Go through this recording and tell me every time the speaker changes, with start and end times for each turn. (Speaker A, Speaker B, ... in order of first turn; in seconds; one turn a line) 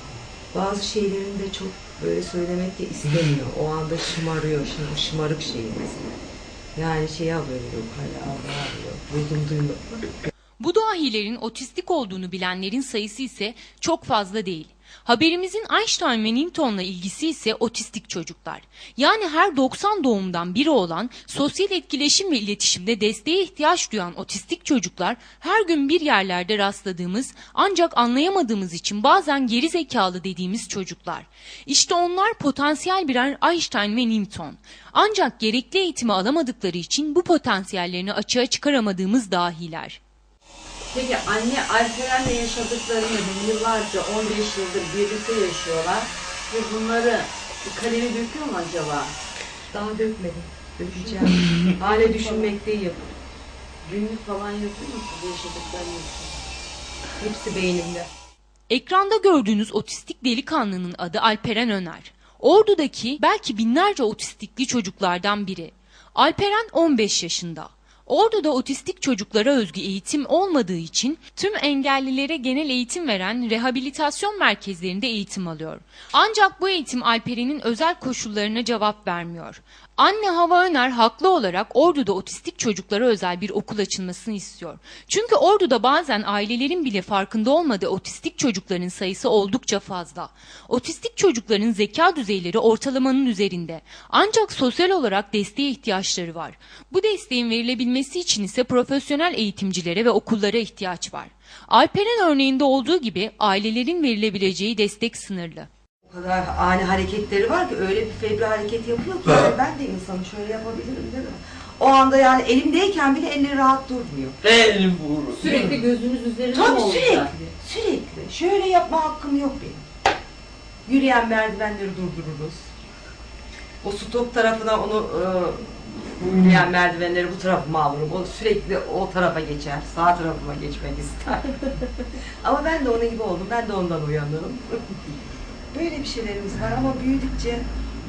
Speaker A: 0.5-6.1
Speaker A: 6.7-10.1
Speaker B: 10.6-40.0
Speaker C: 40.9-49.1
Speaker A: 49.7-53.0
Speaker C: 51.8-52.5
Speaker C: 53.8-56.4
Speaker A: 57.2-58.1
Speaker B: 58.7-105.7
Speaker A: 106.0-114.4
Speaker C: 114.4-117.3
Speaker A: 115.4-115.8
Speaker A: 116.5-119.8
Speaker A: 120.8-122.7
Speaker A: 123.8-125.6
Speaker A: 126.2-131.9
Speaker A: 132.4-135.1
Speaker A: 135.7-137.6